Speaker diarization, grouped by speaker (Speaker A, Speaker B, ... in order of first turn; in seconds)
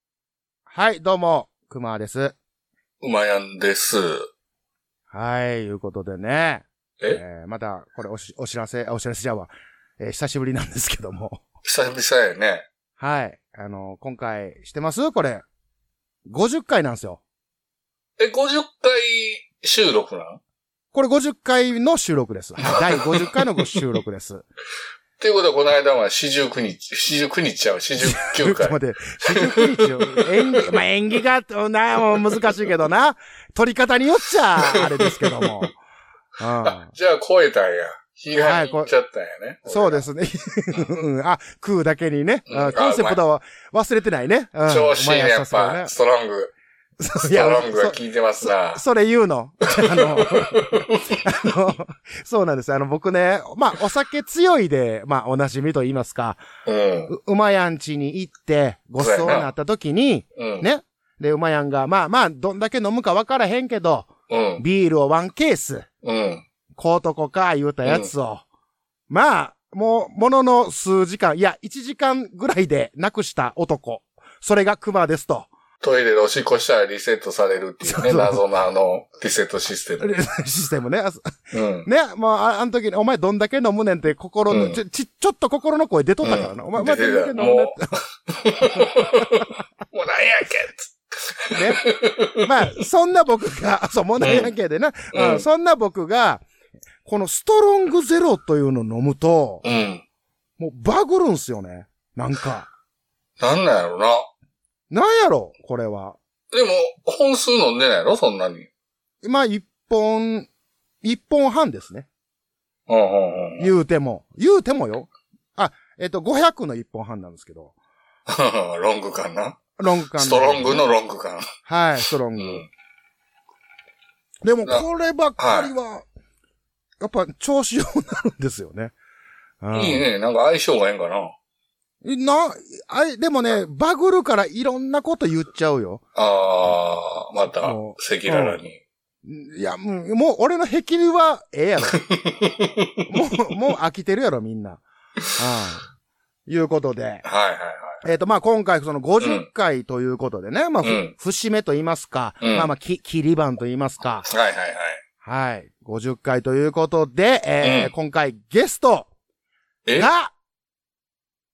Speaker A: 0.7-2.4, 5.1-11.4, 13.0-15.4, 16.2-17.2, 20.9-24.4, 28.0-35.8, 36.4-36.9, 38.3-38.9, 39.6-45.9, 47.0-56.4, 57.1-65.9, 66.7-68.4, 69.1-75.5, 77.8-78.4, 80.0-81.3, 81.8-88.0, 91.5-91.8, 92.4-96.4, 97.0-99.6, 100.6-102.7, 104.9-106.2, 109.2-110.5, 111.0-112.1, 113.6-117.7, 119.8-120.8, 121.7-122.6, 124.4-126.0, 127.0-128.9, 129.6-130.0, 132.0-136.0, 137.6-138.6, 139.2-142.0, 143.1-144.8, 145.3-145.8, 146.5-147.2, 148.0-154.3, 155.2-159.1, 160.0-160.3
Speaker B: 3.0-4.3, 11.6-12.7, 18.2-20.4, 22.7-23.2, 25.2-30.6, 34.6-35.6, 36.6-40.0, 42.5-43.2, 44.7-46.5, 47.2-48.8, 49.7-51.2, 56.6-57.1, 59.0-59.5, 60.4-60.6, 64.3-64.6, 66.0-66.4, 67.8-68.1, 75.8-80.2, 81.5-81.9, 84.5-84.8, 86.2-92.5, 94.2-94.5, 95.1-95.4, 99.6-100.0, 103.4-104.3, 106.5-108.7, 112.9-113.7, 118.3-121.5, 122.3-122.7, 125.4-125.7, 129.7-131.3, 136.2-138.8, 141.9-142.9, 147.2-148.0, 149.2-149.5, 150.8-151.1, 152.4-152.7, 154.2-155.0, 157.6-157.9